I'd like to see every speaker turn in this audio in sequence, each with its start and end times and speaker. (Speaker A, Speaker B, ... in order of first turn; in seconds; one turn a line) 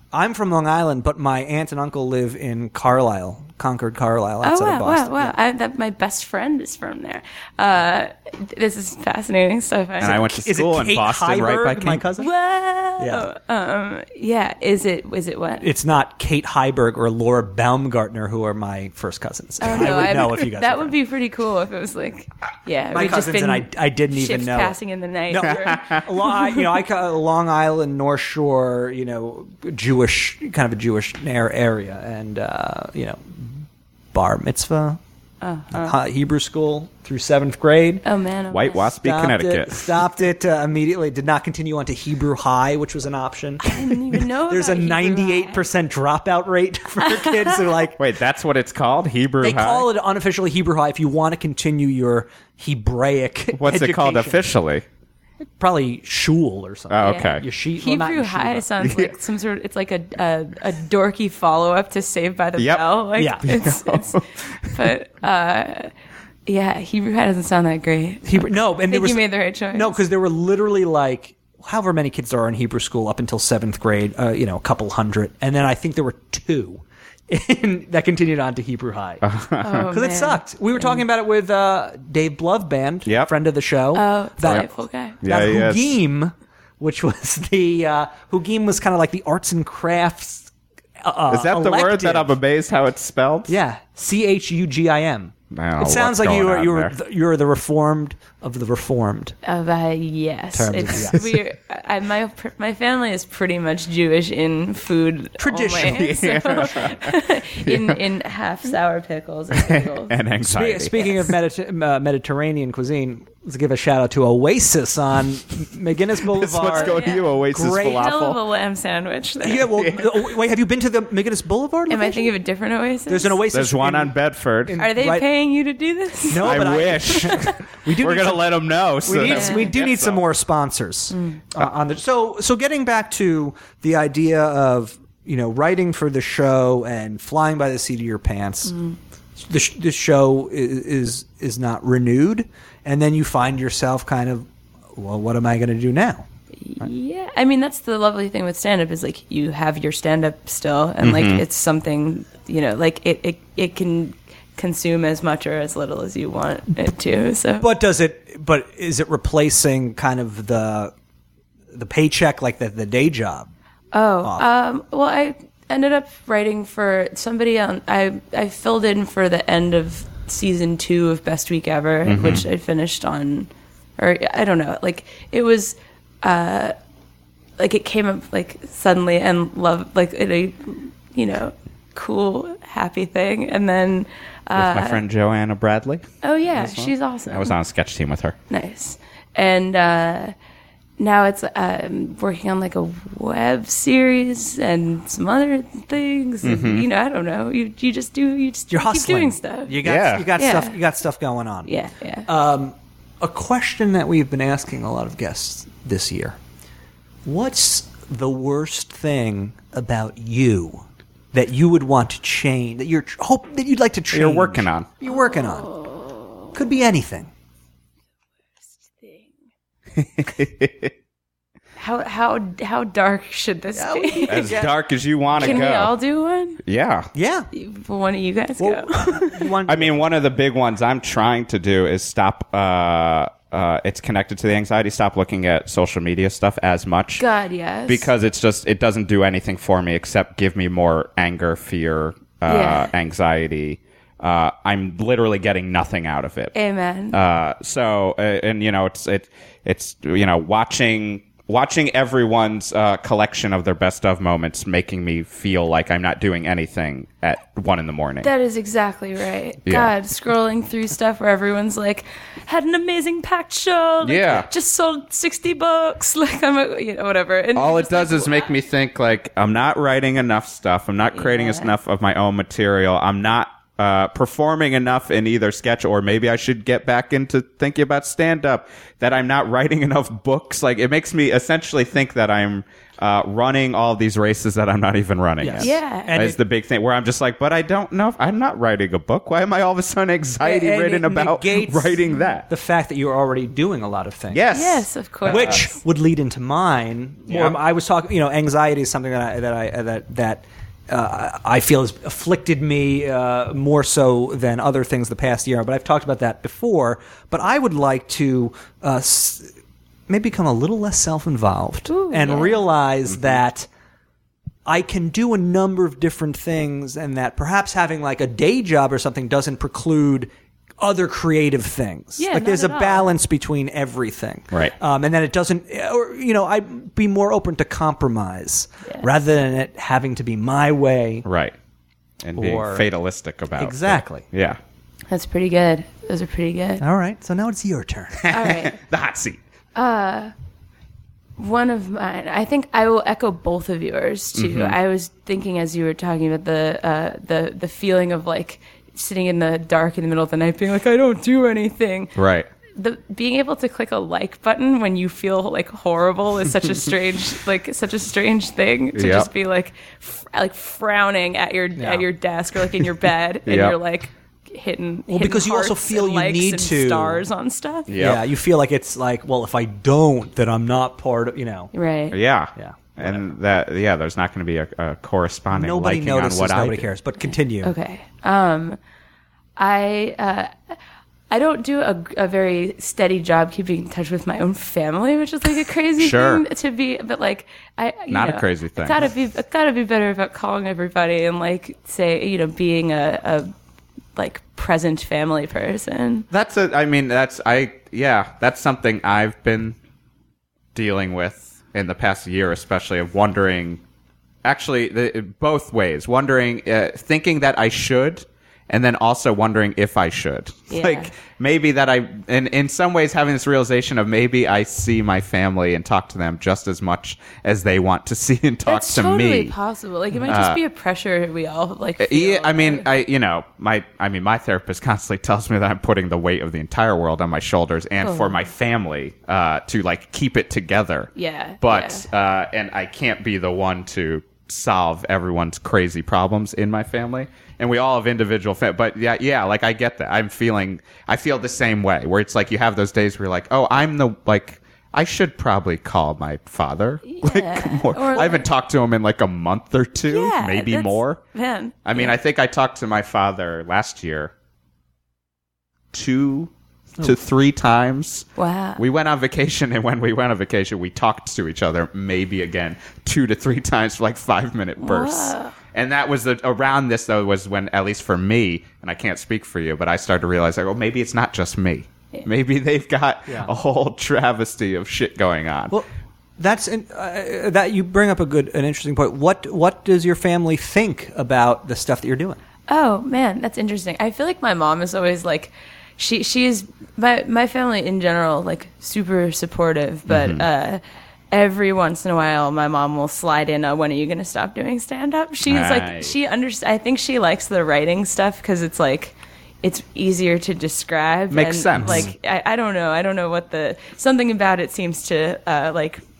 Speaker A: 0.1-5.3
Speaker B: 4.4-10.3
Speaker C: 10.0-12.1
Speaker A: 10.0-12.3
Speaker B: 12.2-15.7
Speaker A: 13.0-13.3
Speaker A: 15.6-20.9
Speaker B: 19.6-26.7
Speaker A: 22.9-24.8
Speaker A: 25.3-35.0
Speaker C: 25.5-26.0
Speaker B: 35.4-36.0
Speaker A: 35.7-38.0
Speaker B: 38.0-38.9
Speaker C: 38.5-39.9
Speaker A: 39.0-48.0
Speaker B: 43.6-45.7
Speaker B: 47.1-47.5
Speaker C: 48.0-49.9
Speaker A: 49.4-54.5
Speaker C: 53.6-54.8
Speaker A: 55.6-58.7
Speaker C: 56.9-57.4
Speaker B: 57.0-65.9
Speaker C: 58.8-59.1
Speaker C: 62.6-64.9
Speaker A: 63.2-63.5
Speaker B: 66.5-70.0
Speaker A: 68.2-79.2
Speaker C: 79.2-79.9
Speaker B: 79.6-81.0
Speaker A: 79.9-84.7
Speaker B: 83.9-85.2
Speaker C: 85.2-85.9
Speaker A: 85.2-92.3
Speaker C: 91.3-93.6
Speaker A: 93.5-99.3
Speaker C: 95.5-96.9
Speaker B: 99.4-110.1
Speaker A: 100.5-101.2
Speaker A: 105.4-106.1
Speaker C: 105.8-108.0
Speaker C: 109.5-111.3
Speaker A: 110.4-118.1
Speaker C: 116.3-118.4
Speaker B: 116.6-119.8
Speaker A: 119.4-122.4
Speaker B: 121.9-123.4
Speaker A: 123.1-125.3
Speaker C: 123.5-124.8
Speaker B: 124.8-127.6
Speaker A: 126.3-138.7
Speaker C: 126.3-130.2
Speaker B: 129.3-129.7
Speaker B: 131.1-131.4
Speaker B: 138.7-139.0
Speaker A: 139.4-146.3
Speaker B: 146.6-157.7
Speaker C: 151.0-151.4
Speaker A: 157.6-160.9
Speaker A: 161.7-163.5
Speaker B: 163.9-176.8
Speaker C: 172.1-172.5
Speaker B: 177.6-185.0
Speaker C: 184.6-188.4
Speaker B: 186.2-187.6
Speaker B: 188.5-190.3
Speaker B: 191.0-199.8
Speaker C: 196.4-196.9
Speaker A: 198.7-201.7
Speaker C: 199.8-200.3
Speaker B: 200.4-200.8
Speaker B: 201.7-202.3
Speaker A: 202.3-206.4
Speaker A: 207.2-215.7
Speaker C: 214.1-214.9
Speaker B: 215.1-216.5
Speaker A: 216.5-217.3
Speaker B: 218.7-219.3
Speaker C: 220.0-220.9
Speaker B: 221.8-224.7
Speaker A: 223.8-224.7
Speaker C: 224.3-225.9
Speaker A: 225.3-225.7
Speaker B: 225.4-226.6
Speaker C: 226.6-227.1
Speaker A: 227.1-227.5
Speaker B: 227.5-229.5
Speaker A: 228.6-230.0
Speaker C: 229.7-237.2
Speaker B: 237.2-238.1
Speaker C: 237.9-246.5
Speaker B: 242.5-242.9
Speaker B: 246.5-247.2
Speaker C: 247.1-258.3
Speaker B: 258.2-268.5
Speaker C: 259.7-259.9
Speaker C: 264.0-264.5
Speaker C: 267.6-292.5
Speaker B: 271.1-271.7
Speaker A: 285.4-286.4
Speaker B: 285.6-286.1
Speaker A: 290.4-294.5
Speaker C: 294.3-295.6
Speaker B: 294.5-295.7
Speaker A: 295.3-309.5
Speaker C: 297.3-297.6
Speaker A: 310.1-313.7
Speaker B: 311.9-312.6
Speaker A: 314.6-331.3
Speaker B: 322.2-323.1
Speaker C: 331.3-331.6
Speaker C: 332.2-334.6
Speaker A: 332.4-332.9
Speaker A: 333.6-334.3
Speaker B: 335.1-336.8
Speaker A: 336.8-338.3
Speaker C: 338.2-339.4
Speaker B: 338.3-338.8
Speaker B: 339.8-340.3
Speaker B: 341.4-352.1
Speaker C: 344.4-344.8
Speaker C: 352.2-352.5
Speaker B: 352.8-367.9
Speaker C: 358.9-359.3
Speaker A: 361.8-362.1
Speaker C: 363.5-363.8
Speaker A: 365.1-367.2
Speaker C: 367.9-368.2
Speaker A: 368.0-371.7
Speaker B: 371.7-372.2
Speaker C: 372.1-376.9
Speaker A: 372.6-373.2
Speaker A: 375.5-377.7
Speaker B: 377.6-378.8
Speaker B: 379.6-380.8
Speaker B: 381.3-393.5
Speaker C: 386.0-386.4
Speaker C: 388.1-389.0
Speaker B: 394.2-396.3
Speaker C: 396.3-399.8
Speaker C: 400.8-403.8
Speaker C: 404.4-419.6
Speaker B: 410.7-411.1
Speaker B: 418.7-422.9
Speaker C: 420.3-420.6
Speaker C: 422.0-431.1
Speaker B: 428.0-428.4
Speaker B: 431.1-432.1
Speaker C: 431.6-451.2
Speaker B: 447.1-448.5
Speaker B: 450.1-452.1
Speaker C: 451.9-454.3
Speaker C: 455.9-475.8
Speaker B: 458.4-458.8
Speaker B: 464.8-465.6
Speaker A: 473.3-473.5
Speaker A: 475.7-482.4
Speaker B: 482.7-506.0
Speaker C: 490.1-490.4
Speaker C: 495.5-496.1
Speaker C: 501.3-502.1
Speaker A: 501.8-502.1